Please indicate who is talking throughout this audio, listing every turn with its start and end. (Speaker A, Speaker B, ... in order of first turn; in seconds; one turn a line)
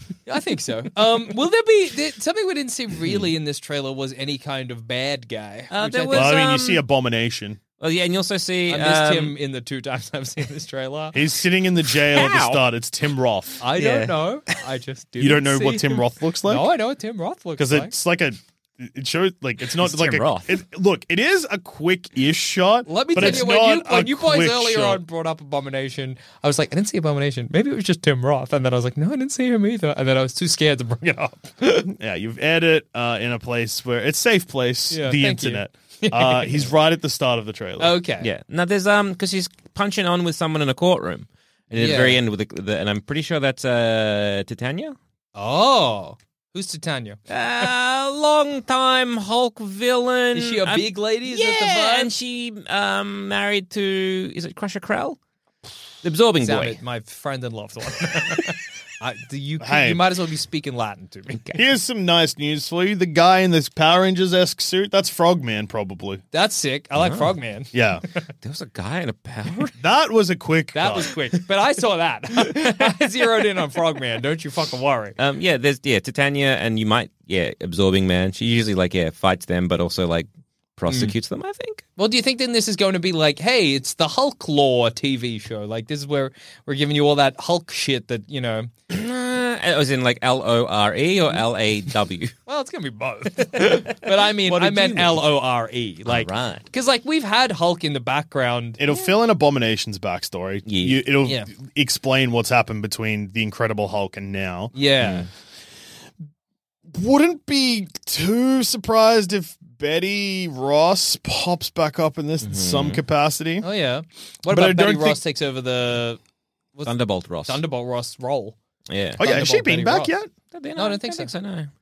Speaker A: 0.3-6.4
Speaker B: 5.7-6.8
Speaker C: 6.1-7.6
Speaker B: 7.8-9.3
Speaker A: 8.7-11.2
Speaker C: 11.1-13.6
Speaker B: 12.1-12.6
Speaker A: 13.6-17.9
Speaker B: 13.8-14.2
Speaker C: 15.2-16.7
Speaker C: 17.6-25.0
Speaker B: 19.6-20.5
Speaker A: 22.9-31.9
Speaker C: 31.9-38.0
Speaker A: 34.9-36.7
Speaker A: 37.8-38.3
Speaker B: 38.2-45.0
Speaker A: 41.8-42.2
Speaker A: 45.4-47.2
Speaker B: 47.3-55.2
Speaker A: 50.4-52.1
Speaker B: 56.0-56.8
Speaker A: 56.4-61.4
Speaker C: 59.6-60.0
Speaker C: 61.5-66.2
Speaker A: 66.3-67.7
Speaker B: 67.0-67.3
Speaker C: 67.7-68.0
Speaker B: 68.4-69.8
Speaker C: 69.8-71.1
Speaker A: 70.7-75.2
Speaker B: 75.2-81.8
Speaker A: 80.9-81.2
Speaker A: 82.0-88.7
Speaker B: 88.9-92.3
Speaker A: 92.5-98.8
Speaker B: 93.6-95.3
Speaker B: 96.1-96.7
Speaker C: 98.8-104.7
Speaker B: 100.7-101.0
Speaker A: 104.7-105.3
Speaker B: 105.0-105.3
Speaker C: 106.9-113.7
Speaker B: 112.4-113.0
Speaker A: 113.6-116.2
Speaker C: 114.5-115.2
Speaker B: 116.9-117.6
Speaker A: 117.5-118.6
Speaker B: 118.9-119.2
Speaker C: 119.2-120.3
Speaker A: 119.2-120.1
Speaker B: 120.5-121.7
Speaker A: 120.8-121.3